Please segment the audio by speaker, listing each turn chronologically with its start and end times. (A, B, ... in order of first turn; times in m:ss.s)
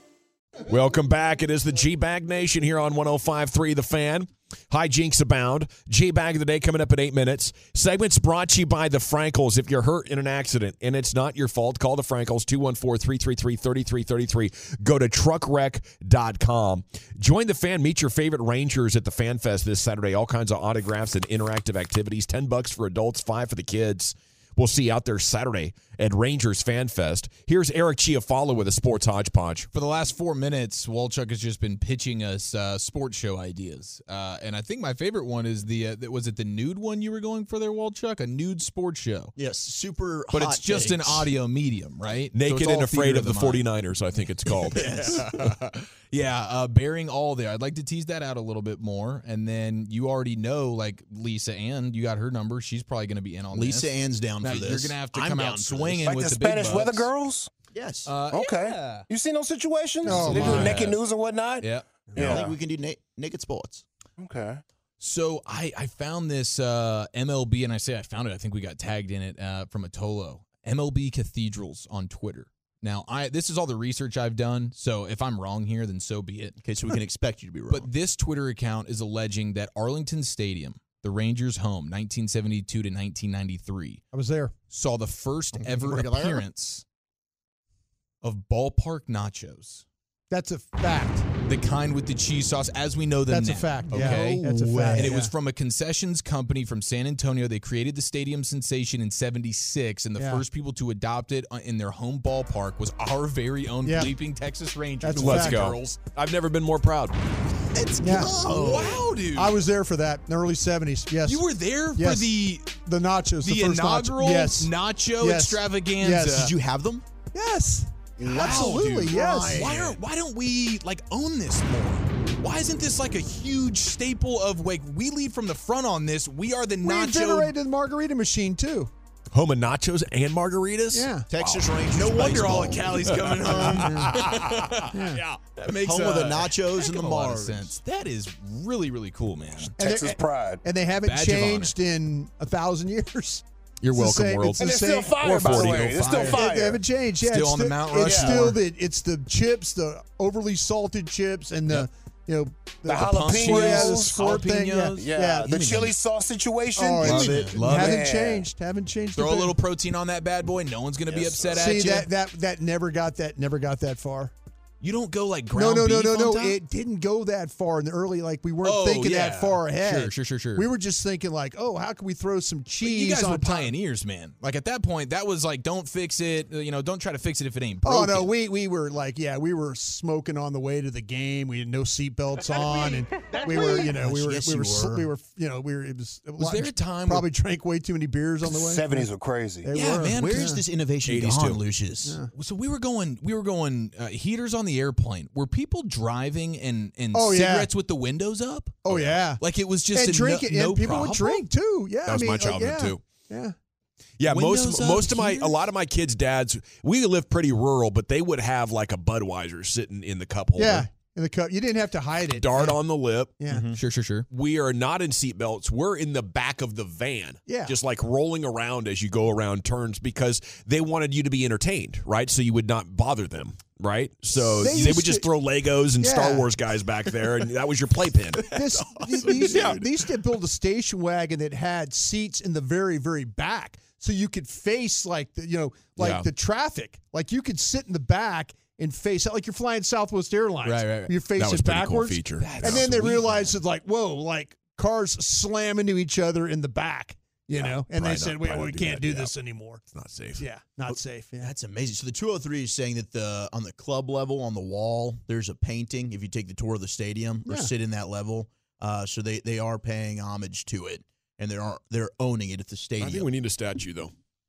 0:00.7-0:29.7 A
0:29.7-0:39.3 B
0:39.4-0:41.3 C
0:40.3-0:43.6 B
0:42.3-0:45.2 A
0:44.7-0:45.2 C
0:44.7-0:57.1 B
0:53.5-0:56.0 C
0:56.0-0:57.5 D
0:57.7-0:58.1 C
0:58.0-0:59.0 B
0:58.3-1:02.5 D
1:00.0-1:01.0 B
1:00.0-1:00.8 E
1:01.6-1:01.9 B
1:02.1-1:03.8 C
1:04.2-1:04.6 D
1:05.0-1:16.6 B
1:16.6-1:17.9 C
1:17.7-1:24.0 B
1:24.1-1:24.5 E
1:24.7-1:26.8 B
1:25.6-1:26.4 C
1:28.2-1:29.8 B
1:30.3-1:31.3 E
1:31.4-1:46.0 B
1:33.3-1:35.3 E
1:33.9-1:35.2 C
1:40.2-1:40.4 E
1:43.8-1:44.1 E
1:45.0-1:45.7 E
1:45.2-1:47.2 A
1:47.7-1:49.6 B
1:48.0-1:56.4 E
1:48.4-1:49.1 C
1:51.2-1:52.7 B
1:53.4-1:56.5 B
1:56.3-1:57.0 C
1:57.3-1:59.9 E
1:58.2-2:07.5 B
1:58.4-1:58.7 C
2:06.8-2:08.9 E
2:09.3-2:11.1 A
2:10.9-2:11.3 E
2:11.3-2:13.8 C
2:11.4-2:19.7 B
2:13.4-2:14.8 A
2:13.6-2:14.1 E
2:14.9-2:15.2 E
2:15.6-2:17.8 C
2:19.6-2:20.6 D
2:19.8-2:35.9 E
2:21.0-2:21.7 B
2:23.8-2:26.4 B
2:24.6-2:26.8 D
2:27.2-2:28.6 B
2:28.0-2:28.4 D
2:32.8-2:34.2 D
2:33.0-2:35.0 B
2:35.0-2:38.5 D
2:36.7-2:39.6 E
2:37.0-2:37.9 C
2:37.0-2:38.0 B
2:39.1-2:42.1 B
2:41.0-2:41.8 D
2:41.5-2:44.3 E
2:44.8-2:46.6 B
2:45.5-2:53.7 E
2:48.6-2:50.7 B
2:52.8-2:58.3 B
2:57.8-3:10.6 E
3:03.4-3:05.1 C
3:06.4-3:07.3 B
3:08.4-3:09.7 D
3:09.7-3:10.5 B
3:10.1-3:12.2 C
3:11.0-3:11.6 A
3:12.0-3:12.3 E
3:12.3-3:21.4 B
3:17.1-3:17.7 E
3:18.8-3:23.5 E
3:22.0-3:23.0 A
3:24.2-3:30.9 A
3:24.2-3:25.6 B
3:30.5-3:32.8 E
3:32.2-3:33.3 A
3:33.4-3:33.7 E
3:33.5-3:33.8 C
3:33.7-3:34.3 B
3:34.3-3:49.9 A
3:37.4-3:37.8 E
3:44.3-3:45.3 E
3:45.9-3:46.5 E
3:48.5-4:09.8 E
3:48.7-3:49.6 B
3:56.0-3:56.3 B
4:00.6-4:01.2 B
4:01.2-4:03.0 A
4:02.4-4:03.2 B
4:07.6-4:09.4 A
4:09.9-4:10.4 A
4:10.4-4:11.5 E
4:10.9-4:23.3 C
4:17.4-4:17.7 E
4:23.0-4:24.1 A